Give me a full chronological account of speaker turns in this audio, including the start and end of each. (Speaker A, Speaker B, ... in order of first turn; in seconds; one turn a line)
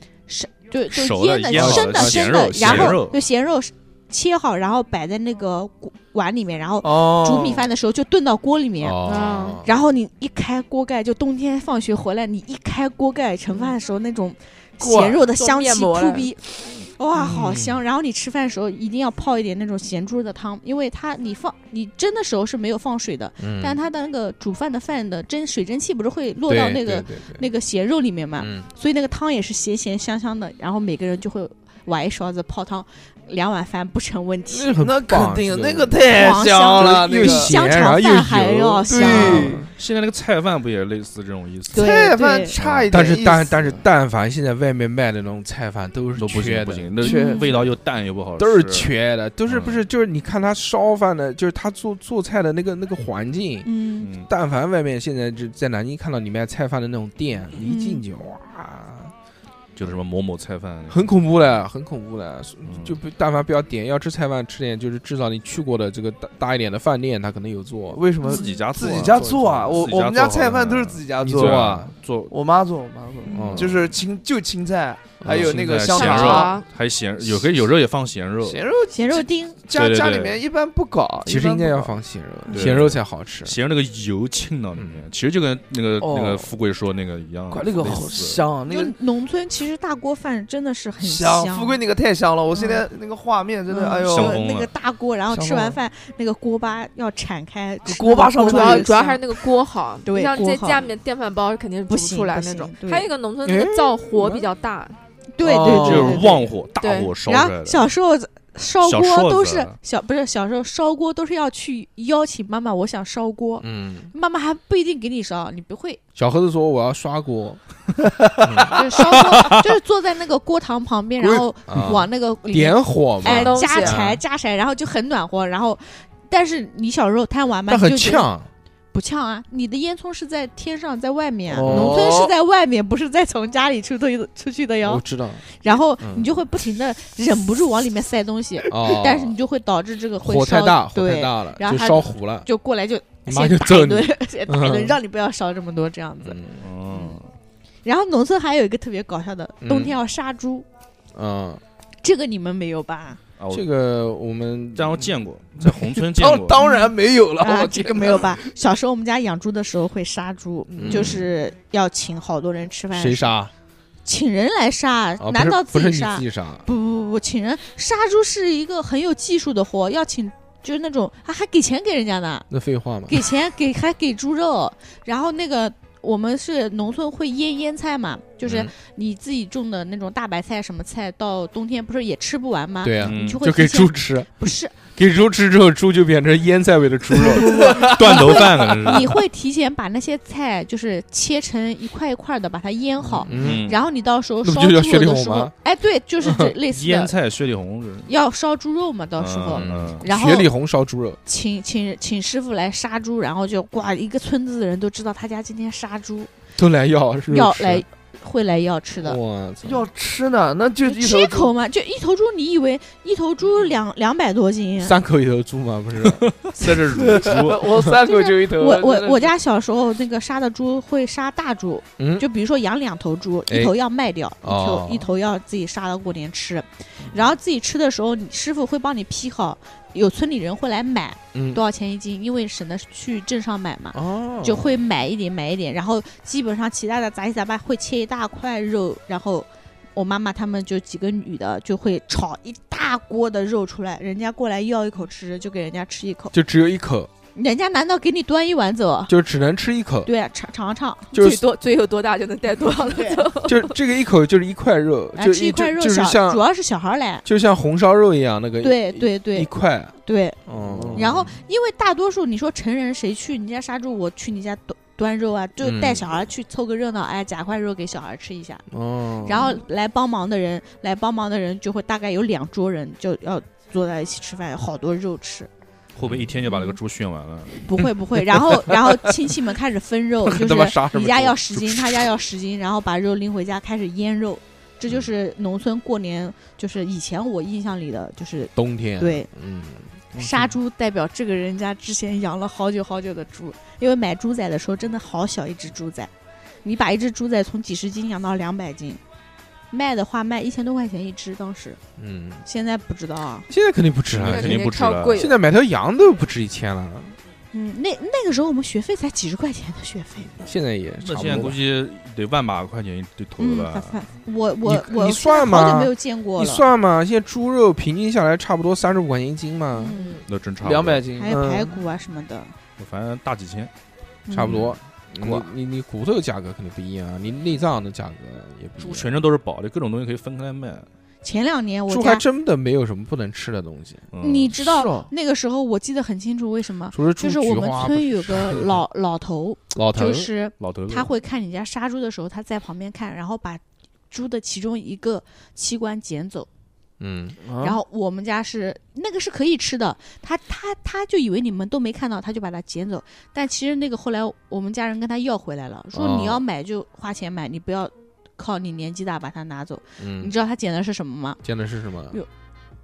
Speaker A: 0.3-34.7
Speaker B: 0.9-3.2
Speaker C: 1.5-3.0
Speaker D: 6.8-7.7
Speaker C: 8.8-9.7
Speaker E: 9.1-9.6
Speaker D: 14.8-15.2
Speaker E: 15.3-16.3
Speaker B: 17.3-17.8
Speaker C: 23.4-23.8
Speaker C: 26.5-27.4
Speaker C: 28.4-28.6
Speaker C: 34.5-39.7
Speaker D: 34.8-37.5
Speaker A: 36.1-39.6
Speaker D: 38.9-39.7
Speaker B: 39.0-41.9
Speaker A: 41.7-42.5
Speaker D: 41.7-43.8
Speaker B: 42.5-43.0
Speaker C: 42.9-46.9
Speaker B: 46.2-48.9
Speaker A: 47.0-47.6
Speaker D: 47.0-47.7
Speaker C: 48.4-59.1
Speaker B: 49.5-49.8
Speaker A: 53.6-54.1
Speaker B: 54.0-54.3
Speaker A: 57.5-58.0
Speaker B: 59.8-61.1
Speaker C: 60.9-68.0
Speaker B: 62.6-63.0
Speaker D: 67.9-76.6
Speaker B: 68.2-72.3
Speaker C: 68.9-69.7
Speaker C: 71.2-71.9
Speaker A: 73.2-73.5
Speaker C: 73.3-73.8
Speaker B: 73.5-73.9
Speaker C: 75.2-75.5
Speaker B: 75.2-78.6
Speaker E: 75.9-76.7
Speaker D: 78.4-81.9
Speaker A: 78.9-79.6
Speaker B: 79.7-80.4
Speaker C: 81.2-83.5
Speaker A: 82.5-82.7
Speaker B: 82.5-88.4
Speaker C: 84.7-85.0
Speaker D: 86.0-86.5
Speaker D: 87.5-88.9
Speaker A: 88.7-91.8
Speaker D: 91.0-94.4
Speaker A: 92.5-92.8
Speaker A: 93.7-99.4
Speaker B: 94.0-94.7
Speaker D: 95.3-95.8
Speaker D: 97.8-99.0
Speaker E: 98.4-105.0
Speaker A: 100.0-100.9
Speaker A: 101.9-103.1
Speaker C: 103.4-104.5
Speaker A: 105.3-106.5
Speaker D: 105.4-106.3
Speaker B: 105.7-107.9
Speaker E: 106.8-107.1
Speaker A: 107.2-116.0
Speaker B: 108.8-109.8
Speaker C: 113.6-114.1
Speaker C: 116.2-117.6
Speaker D: 118.0-118.8
Speaker C: 118.4-118.8
Speaker A: 118.7-128.3
Speaker C: 121.7-124.2
Speaker E: 123.2-124.0
Speaker C: 127.7-128.5
Speaker A: 128.9-147.2
Speaker D: 131.5-132.3
Speaker C: 131.6-132.3
Speaker C: 134.8-135.4
Speaker C: 136.0-136.3
Speaker C: 138.7-139.3
Speaker C: 140.2-142.5
Speaker C: 143.3-145.0
Speaker C: 146.2-146.6
Speaker B: 146.6-147.3
Speaker A: 147.8-150.7
Speaker C: 149.6-149.9
Speaker C: 151.1-151.6
Speaker A: 152.0-153.2
Speaker B: 153.4-153.7
Speaker C: 153.5-155.1
Speaker B: 154.7-156.6
Speaker D: 155.7-158.4
Speaker A: 156.6-163.3
Speaker C: 160.8-161.2
Speaker C: 162.9-163.5
Speaker A: 164.0-172.5
Speaker C: 165.2-166.7
Speaker C: 172.5-173.3
Speaker A: 173.1-184.7
Speaker C: 178.4-178.7
Speaker C: 182.8-187.8
Speaker B: 183.0-183.4
Speaker D: 187.2-188.9
Speaker B: 187.7-189.2
Speaker A: 187.9-197.1
Speaker C: 193.2-193.8
Speaker B: 193.3-193.8
Speaker C: 194.4-195.5
Speaker C: 196.2-196.5
Speaker B: 196.7-198.1
Speaker A: 198.1-200.5
Speaker B: 199.2-200.0
Speaker C: 199.5-201.2
Speaker A: 201.2-206.3
Speaker C: 206.6-207.8
Speaker A: 207.3-209.2
Speaker C: 209.0-209.9
Speaker D: 209.6-211.5
Speaker A: 210.8-215.0
Speaker C: 214.8-216.2
Speaker B: 216.0-217.8
Speaker D: 216.9-219.3
Speaker A: 217.8-246.3
Speaker C: 222.0-222.2
Speaker C: 223.5-223.7
Speaker C: 224.4-225.1
Speaker C: 231.3-231.6
Speaker C: 233.9-234.8
Speaker C: 246.3-247.1
Speaker A: 247.3-249.1
Speaker C: 249.1-250.1
Speaker A: 250.0-251.1
Speaker C: 251.1-251.4
Speaker E: 251.1-253.8
Speaker A: 252.8-253.2
Speaker C: 253.4-256.4
Speaker A: 255.2-257.2
Speaker C: 257.2-259.9
Speaker A: 258.6-260.4
Speaker C: 260.4-261.3
Speaker A: 260.9-268.6
Speaker C: 265.6-266.1
Speaker C: 268.7-269.6
Speaker A: 269.2-275.5
Speaker B: 275.9-277.6
Speaker A: 276.4-276.8
Speaker A: 277.6-289.3
Speaker C: 280.2-282.0
Speaker C: 288.5-290.0
Speaker A: 290.1-296.1
Speaker A: 296.6-299.0
Speaker A: 299.7-301.8
Speaker C: 302.0-302.4
Speaker A: 302.4-303.5
Speaker C: 303.5-307.1
Speaker B: 304.1-305.3
Speaker E: 304.2-305.4
Speaker A: 307.5-310.5
Speaker C: 310.4-311.6
Speaker B: 311.0-314.0
Speaker A: 313.4-316.6
Speaker C: 314.6-320.0
Speaker A: 319.7-320.2
Speaker E: 319.9-320.2
Speaker B: 320.3-321.1
Speaker D: 320.6-321.4
Speaker A: 321.1-322.5
Speaker C: 321.2-321.8
Speaker B: 322.8-323.7
Speaker A: 324.2-324.6
Speaker C: 324.3-329.2
Speaker B: 324.3-324.7
Speaker D: 325.2-325.4
Speaker B: 328.8-330.9
Speaker A: 331.2-332.2
Speaker C: 331.9-334.1
Speaker B: 334.1-334.6
Speaker A: 334.2-346.5
Speaker D: 334.6-335.1
Speaker C: 336.9-338.7
Speaker C: 339.7-340.3
Speaker B: 340.6-341.1
Speaker C: 347.0-347.4
Speaker D: 347.4-347.8
Speaker A: 347.6-361.4
Speaker C: 355.9-356.4
Speaker C: 360.0-360.3
Speaker C: 361.4-362.2